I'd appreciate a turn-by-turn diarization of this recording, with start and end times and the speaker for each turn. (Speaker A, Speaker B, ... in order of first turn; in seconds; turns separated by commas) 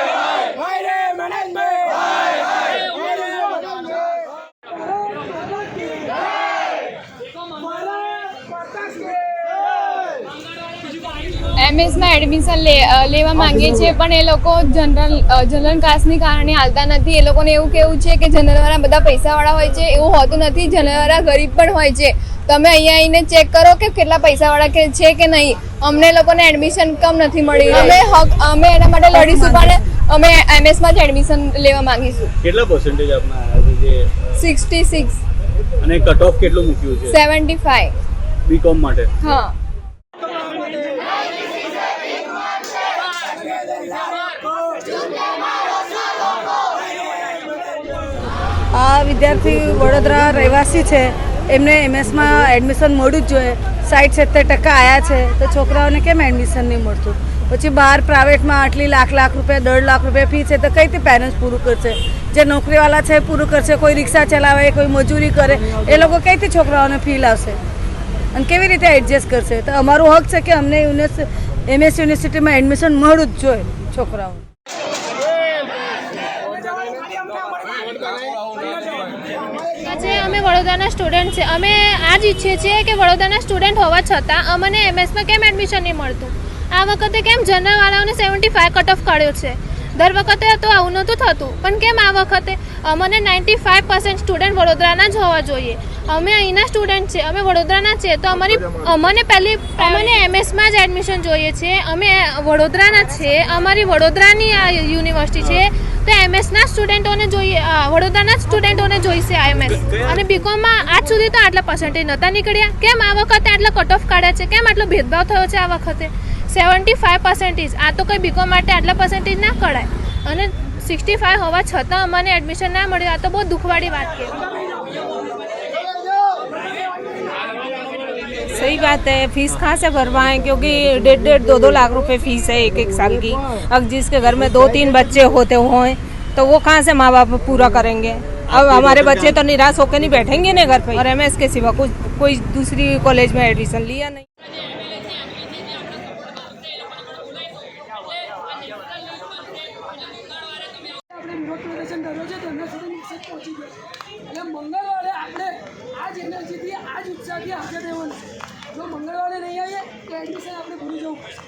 Speaker A: 0.4-3.8, Speaker A: 4.7-6.1, Speaker A: 7.5-9.5, Speaker B: 11.6-32.3, Speaker C: 27.7-28.0, Speaker C: 29.1-29.7, Speaker D: 32.4-34.0, Speaker B: 34.4-35.2, Speaker D: 35.8-37.2, Speaker B: 37.1-37.9, Speaker D: 38.5-39.1, Speaker B: 39.2-39.5, Speaker C: 48.7-67.6, Speaker C: 68.3-74.5, Speaker A: 76.5-79.0, Speaker E: 79.8-124.4, Speaker F: 128.5-144.2, Speaker A: 151.1-161.3